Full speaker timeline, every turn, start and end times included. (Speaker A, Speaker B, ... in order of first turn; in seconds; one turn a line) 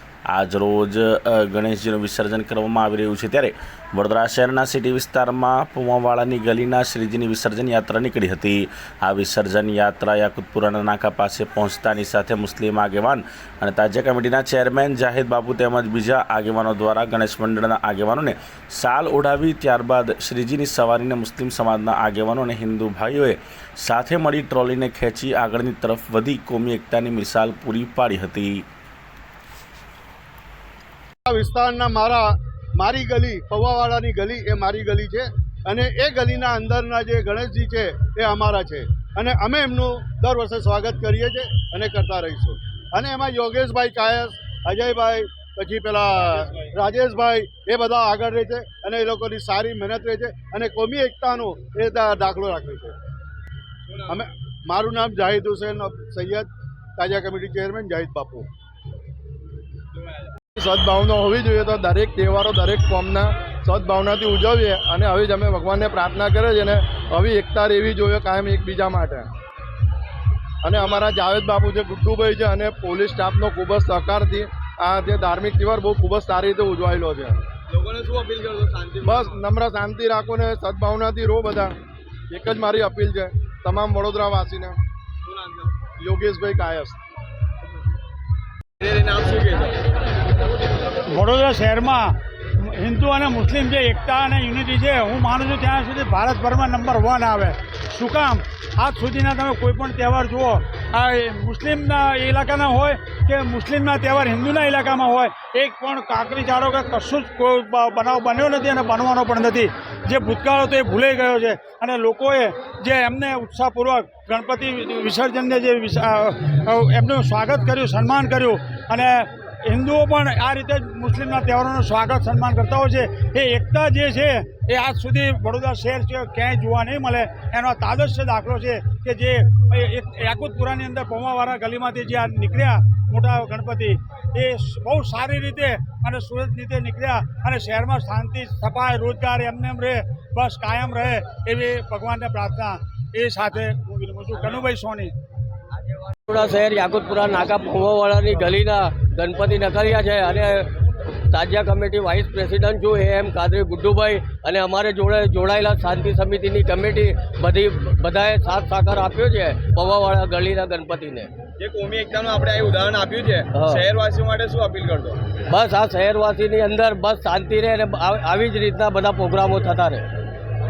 Speaker A: 0.3-28.6
Speaker B: 31.3-52.9
Speaker B: 54.1-58.5
Speaker C: 60.5-69.3
Speaker C: 70.6-77.4
Speaker D: 70.8-71.0
Speaker D: 77.7-79.4
Speaker C: 79.0-81.8
Speaker C: 82.3-84.8
Speaker D: 85.3-85.8
Speaker C: 86.0-87.0
Speaker D: 88.8-89.8
Speaker E: 91.1-145.1
Speaker F: 146.3-150.7
Speaker F: 151.3-161.3
Speaker D: 161.6-165.2
Speaker F: 163.5-163.8
Speaker F: 165.5-170.1